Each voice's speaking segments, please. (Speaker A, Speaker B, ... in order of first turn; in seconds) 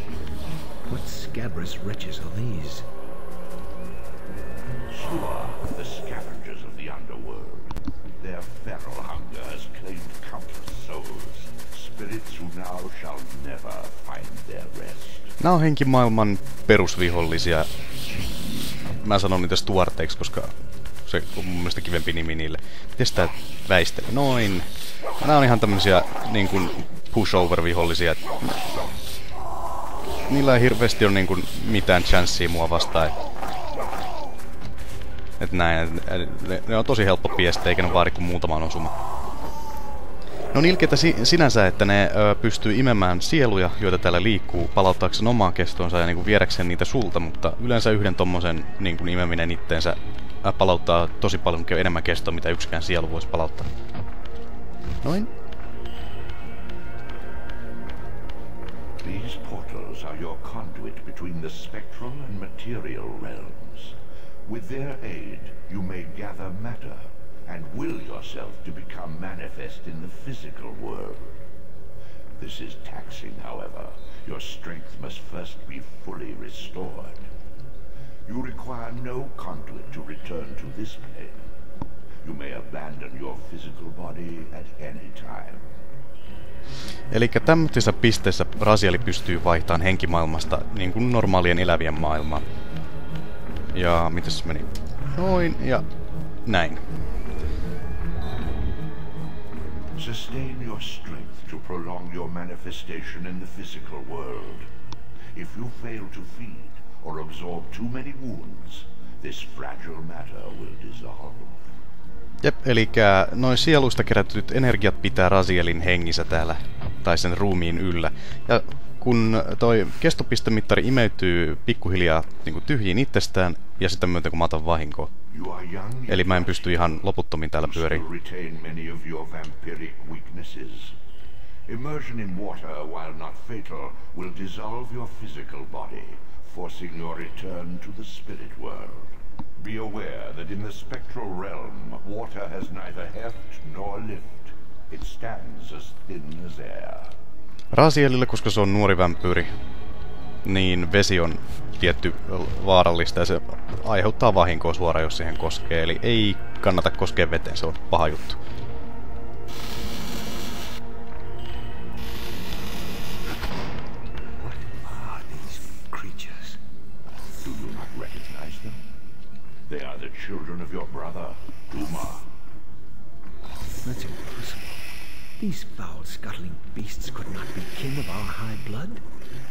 Speaker A: 0.9-2.9, 164.4-166.6, 173.8-174.8, 175.4-179.0
Speaker B: 4.9-15.3, 59.0-71.4, 72.4-77.2, 78.2-81.4, 82.2-85.6, 99.9-104.7, 105.3-111.7, 125.3-130.9, 131.7-147.1, 167.4-168.8, 169.7-172.3
Speaker C: 15.4-17.7, 18.4-20.5, 21.1-24.7, 25.2-28.9, 30.3-33.1, 35.4-38.9, 40.5-53.7, 55.0-55.3, 87.1-92.4, 93.7-95.9, 96.5-96.8, 112.4-125.1, 126.1-128.0, 147.7-149.5, 150.4-158.4